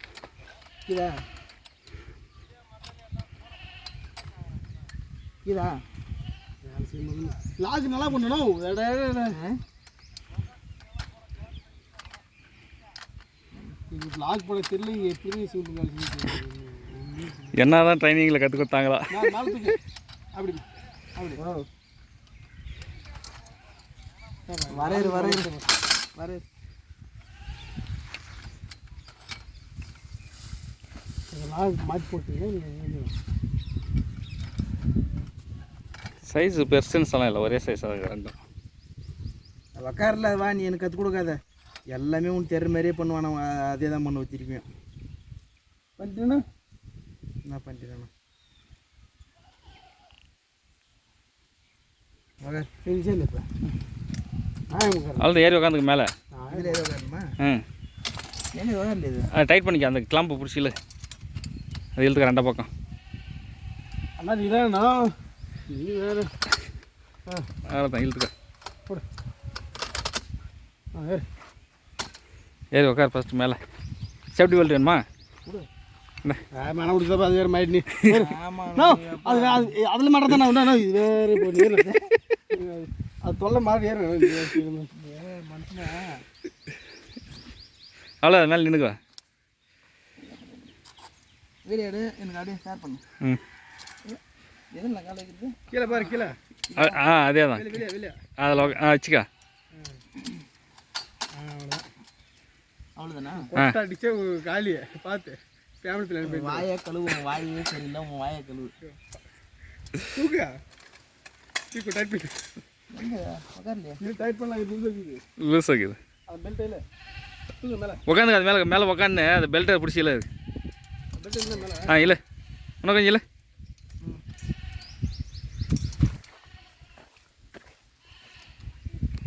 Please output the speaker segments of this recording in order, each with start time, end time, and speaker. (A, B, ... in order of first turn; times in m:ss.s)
0:00.9-0:01.2 A
0:05.4-0:05.8 A
0:06.6-0:09.4 B
0:09.3-0:09.6 A
0:13.9-0:17.6 B
0:17.5-0:19.0 C
0:19.1-0:19.8 B
0:20.3-0:20.6 B
0:21.4-0:21.6 A
0:24.5-0:25.7 B
0:24.7-0:25.6 A
0:26.2-0:26.4 A
0:31.3-0:33.1 B
0:36.2-0:38.3 C
0:39.7-0:41.4 A
0:41.9-0:44.6 A
0:46.0-0:46.4 B
0:47.4-0:48.1 A
0:52.4-0:52.7 A
0:52.8-0:53.5 B
0:54.7-0:55.3 B
0:55.2-0:56.1 C
0:56.3-0:56.8 B
0:56.5-0:57.2 A
0:58.5-0:59.3 A
0:59.3-1:00.7 C
1:02.0-1:02.7 C
1:04.2-1:05.1 B
1:05.7-1:06.3 B
1:07.7-1:08.3 C
1:10.9-1:11.2 B
1:12.7-1:13.6 C
1:14.3-1:15.0 C
1:16.5-1:21.8 B
1:18.1-1:19.7 A
1:21.7-1:22.1 A
1:22.5-1:24.9 B
1:24.9-1:26.0 A
1:28.2-1:29.0 C
1:30.2-1:30.6 A
1:31.6-1:33.0 A
1:34.7-1:36.0 A
1:35.7-1:37.0 B
1:36.8-1:37.8 C
1:37.5-1:38.2 B
1:38.4-1:39.2 C
1:39.7-1:40.0 B
1:41.3-1:41.8 B
1:43.0-1:43.4 A
1:43.4-1:46.6 B
1:46.2-1:48.7 A
1:49.9-1:50.5 B
1:51.7-1:52.4 B
1:52.9-1:54.0 A
1:54.0-1:55.2 B
1:55.4-1:56.0 C
1:56.3-1:56.8 B
1:57.6-1:58.0 B
1:58.1-2:00.3 C
2:01.1-2:02.1 B
2:01.9-2:02.2 C
2:02.8-2:03.2 C